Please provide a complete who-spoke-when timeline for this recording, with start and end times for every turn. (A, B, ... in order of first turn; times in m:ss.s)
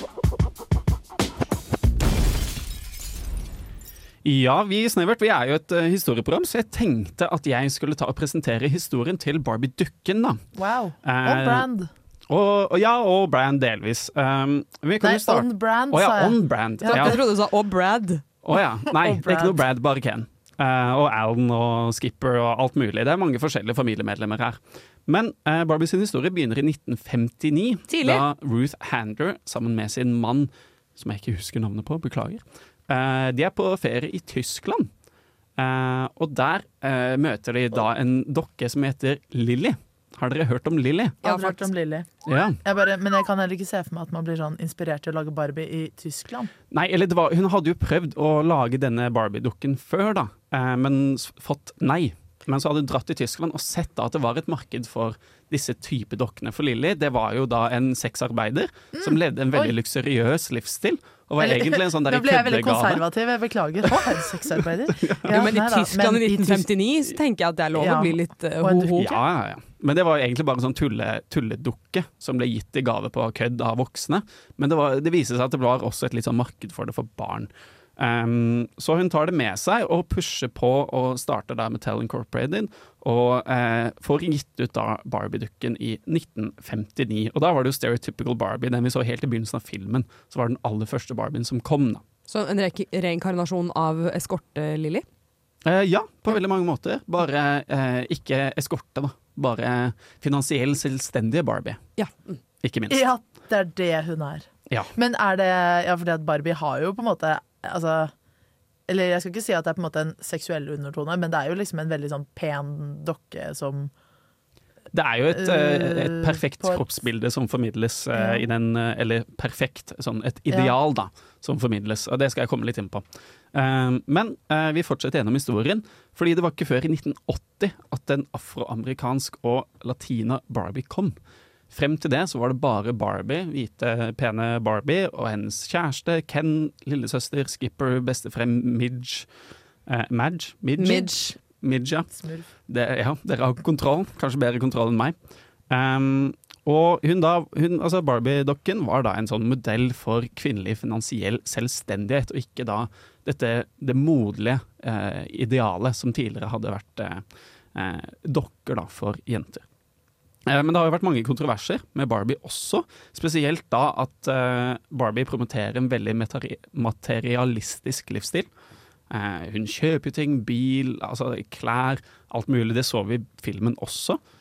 0:04.2-0:10.4 A
0:10.6-0:11.9 B
0:11.0-0:11.7 A
0:12.3-0:17.2 A
0:15.0-0:17.2 B
0:16.9-0:18.2 C
0:18.4-0:34.9 A
0:19.0-0:19.6 B
0:27.9-0:28.2 C
0:35.6-0:41.2 A
0:41.2-0:41.7 C
0:41.2-0:42.1 B
0:42.2-0:42.6 A
0:42.6-0:46.5 B
0:46.7-1:03.0 A
0:59.0-0:59.8 B
1:01.4-1:06.7 B
1:04.0-1:05.5 A
1:05.3-1:09.0 C
1:07.8-1:09.2 B
1:09.0-1:32.0 A
1:32.3-1:35.0 C
1:35.6-1:41.8 A
1:42.0-1:42.4 C
1:42.6-1:43.1 A
1:42.9-1:48.1 B
1:48.9-1:53.9 B
1:54.9-2:03.0 A
1:55.3-1:56.8 B
1:58.1-1:58.5 B
2:03.5-2:11.2 A
2:11.7-2:19.3 A
2:19.9-2:22.1 A
2:20.8-2:21.3 C
2:22.1-2:22.5 B
2:22.7-2:25.2 A
2:25.7-2:37.2 A
2:37.8-2:39.6 A
2:40.5-2:48.5 A
2:49.1-2:54.2 A